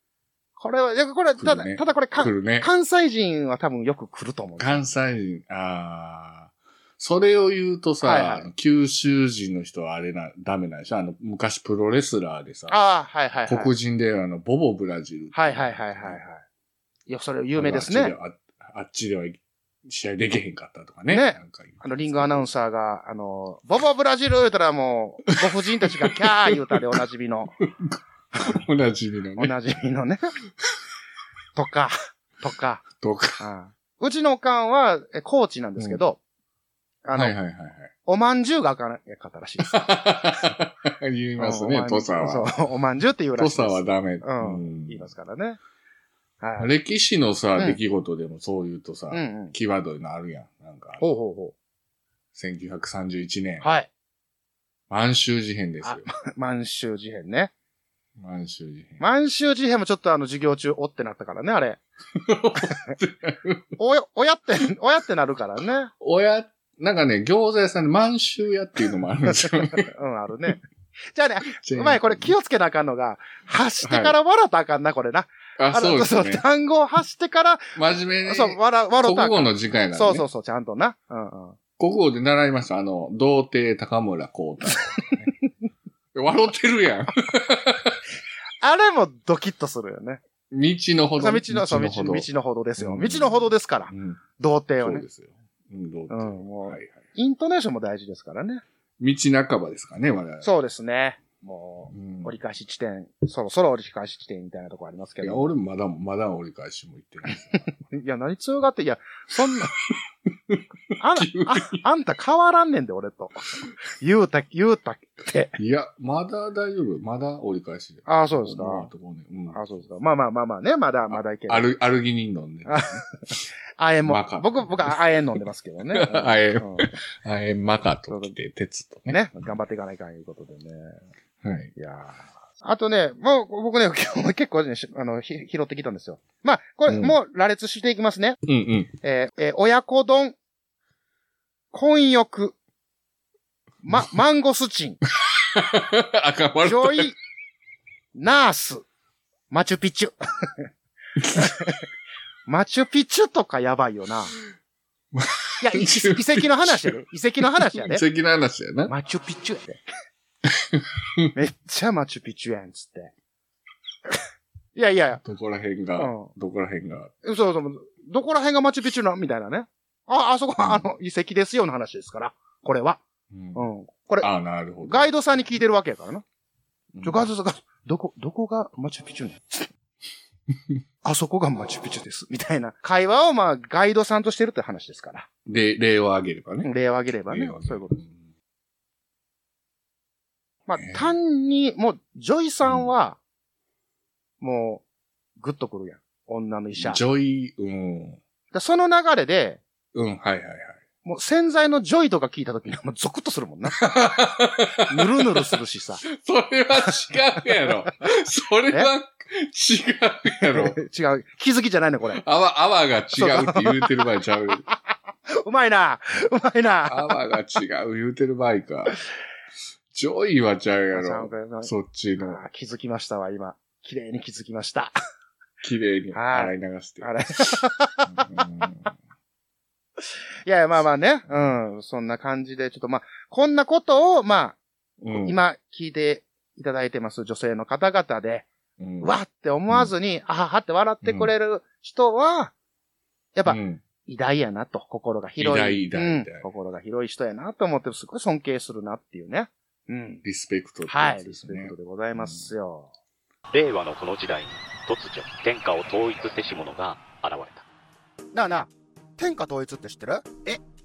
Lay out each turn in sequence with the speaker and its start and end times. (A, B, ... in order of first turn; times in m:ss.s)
0:00.6-0:04.8 A
0:01.4-0:02.7 B
0:04.6-0:12.8 B
0:08.0-0:08.5 A
0:12.7-0:13.7 A
0:13.5-0:16.2 B
0:15.3-0:16.4 A
0:17.1-0:18.1 A
0:17.5-0:22.5 B
0:21.1-0:27.6 A
0:25.4-0:26.8 B
0:27.7-0:29.5 B
0:29.4-0:30.3 A
0:31.6-0:32.8 A
0:33.0-0:33.4 B
0:33.4-0:36.2 A
0:37.0-0:37.4 A
0:37.1-0:37.9 B
0:38.0-0:40.5 A
0:39.7-0:42.5 B
0:41.4-0:45.6 A
0:43.4-0:45.1 B
0:46.4-0:46.7 A
0:46.6-0:51.0 B
0:49.1-0:49.5 A
0:51.0-0:51.5 A
0:52.3-0:53.6 B
0:53.6-0:53.9 A
0:54.9-0:56.1 B
0:55.8-0:57.5 A
0:58.2-0:59.0 B
0:59.0-1:01.8 A
1:02.1-1:03.6 B
1:03.8-1:05.9 A
1:06.0-1:09.9 B
1:09.3-1:10.6 A
1:11.1-1:21.6 A
1:11.5-1:12.3 B
1:13.8-1:14.1 B
1:15.6-1:16.4 B
1:17.8-1:20.2 B
1:21.8-1:25.3 B
1:26.1-1:28.0 B
1:28.6-1:30.2 A
1:30.5-1:32.3 B
1:31.2-1:35.0 A
1:32.8-1:34.2 B
1:34.8-1:36.9 B
1:36.1-1:38.6 A
1:39.0-1:40.5 B
1:40.4-1:45.5 A
1:41.9-1:42.3 B
1:45.2-1:47.7 B
1:47.5-1:49.7 A
1:51.0-1:55.5 A
1:51.2-1:51.8 B
1:55.6-1:59.6 B
1:58.0-1:58.9 A
1:59.5-2:01.7 A
2:01.1-2:03.0 B
2:02.6-2:03.0 A
2:03.8-2:06.9 A
2:04.0-2:05.0 B
2:05.9-2:09.2 B
2:08.1-2:08.3 A
2:09.1-2:11.0 A
2:11.4-2:11.7 B
2:11.8-2:18.4 A
2:16.9-2:17.2 B
2:18.4-2:18.9 B
2:19.0-2:20.4 A
2:21.7-2:22.5 A
2:23.8-2:25.0 A
2:25.2-2:27.1 B
2:26.6-2:27.2 A
2:28.1-2:28.8 A
2:29.5-2:30.7 A
2:31.2-2:31.5 B
2:31.3-2:31.8 A
2:32.5-2:34.3 A
2:35.1-2:38.9 B
2:35.6-2:38.0 A
2:38.9-2:39.8 A
2:40.5-2:41.3 B
2:41.3-2:43.1 A
2:44.8-2:45.2 A
2:45.2-2:47.1 B
2:46.0-2:46.3 A
2:47.2-2:53.0 A
2:50.6-2:50.8 B
2:53.3-2:53.6 B
2:53.5-2:54.3 A
2:54.2-2:55.1 B
2:54.8-2:56.2 A
2:56.9-2:57.2 B
2:57.0-2:59.7 A
3:01.0-3:05.3 A
3:05.4-3:06.7 B
3:06.6-3:08.0 A
3:07.3-3:08.2 B
3:10.7-3:13.2 A
3:10.8-3:11.1 B
3:12.6-3:12.9 B
3:14.4-3:14.8 A
3:15.4-3:17.0 A
3:16.8-3:18.2 B
3:18.5-3:19.6 A
3:19.9-3:20.8 B
3:21.0-3:23.9 A
3:23.8-3:25.5 B
3:24.9-3:26.0 A
3:26.0-3:30.8 B
3:30.4-3:32.2 A
3:32.1-3:34.6 B
3:33.2-3:34.0 A
3:35.3-3:37.2 A
3:36.9-3:39.0 B
3:39.9-3:42.4 B
3:40.9-3:44.9 A
3:45.6-3:48.9 B
3:46.1-3:48.4 A
3:50.4-3:58.5 A
3:55.0-3:55.4 B
3:58.8-3:59.1 B
3:59.0-4:02.5 A
4:01.0-4:01.3 B
4:03.3-4:10.2 A
4:03.5-4:03.8 B
4:05.4-4:06.5 B
4:10.2-4:12.5 B
4:10.9-4:12.9 A
4:13.5-4:17.6 C
4:18.3-4:18.7 A
4:19.2-4:20.2 A